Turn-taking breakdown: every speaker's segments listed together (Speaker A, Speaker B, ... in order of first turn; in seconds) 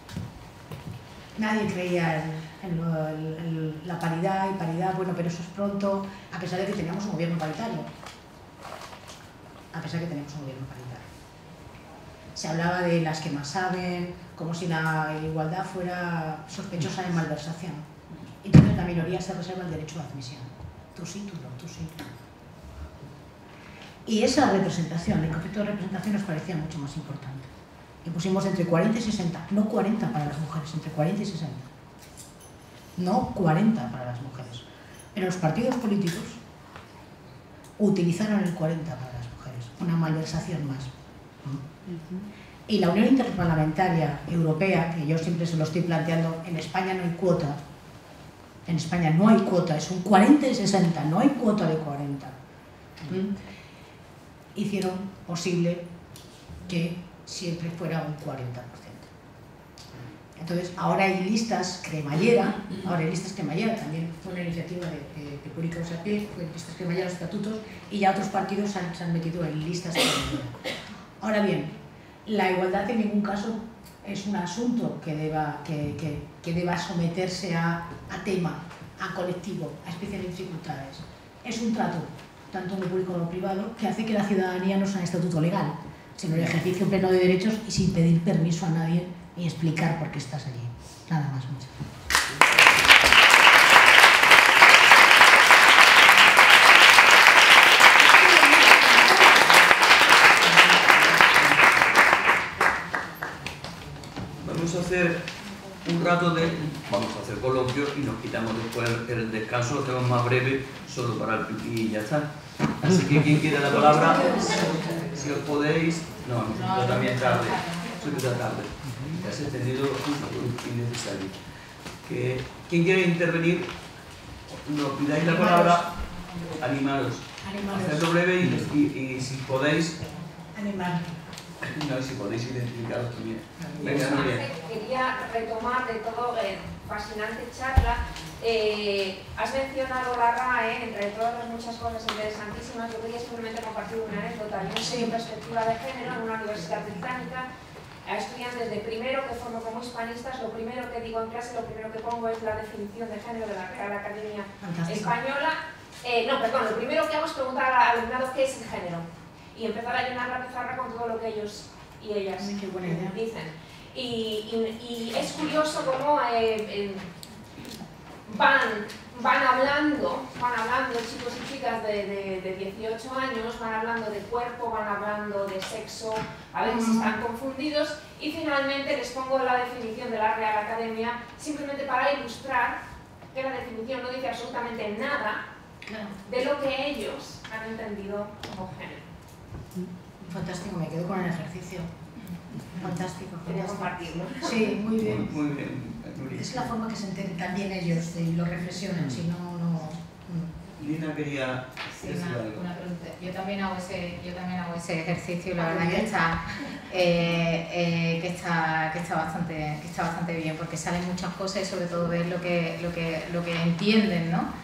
Speaker A: 1.4-7.9, 9.7-11.1, 12.4-17.9, 18.4-22.1, 24.1-27.5, 28.0-31.7, 33.0-36.4, 37.8-40.9, 42.7-47.6, 48.7-52.3, 53.1-53.3, 54.5-55.8, 56.7-59.1, 60.4-70.6, 71.2-71.7, 72.3-91.8, 113.7-115.0, 125.3-125.8, 127.4-128.1, 130.5-131.1, 133.7-134.1, 154.6-155.2, 162.4-163.2, 176.7-177.1, 185.9-186.2, 190.2-191.9, 192.7-195.3, 196.3-200.5, 205.6-206.1
Speaker B: 98.3-99.2, 133.8-147.5, 148.1-167.1, 168.3-182.8, 183.3-185.4, 186.2-189.0, 193.5-194.7
Speaker C: 104.4-105.2, 105.8-112.3, 112.8-121.4, 122.0-123.7, 124.5-125.9, 126.5-130.0, 131.6-134.5, 195.0-196.7, 200.8-202.6
Speaker D: 114.5-114.8, 116.5-118.3, 202.0-214.5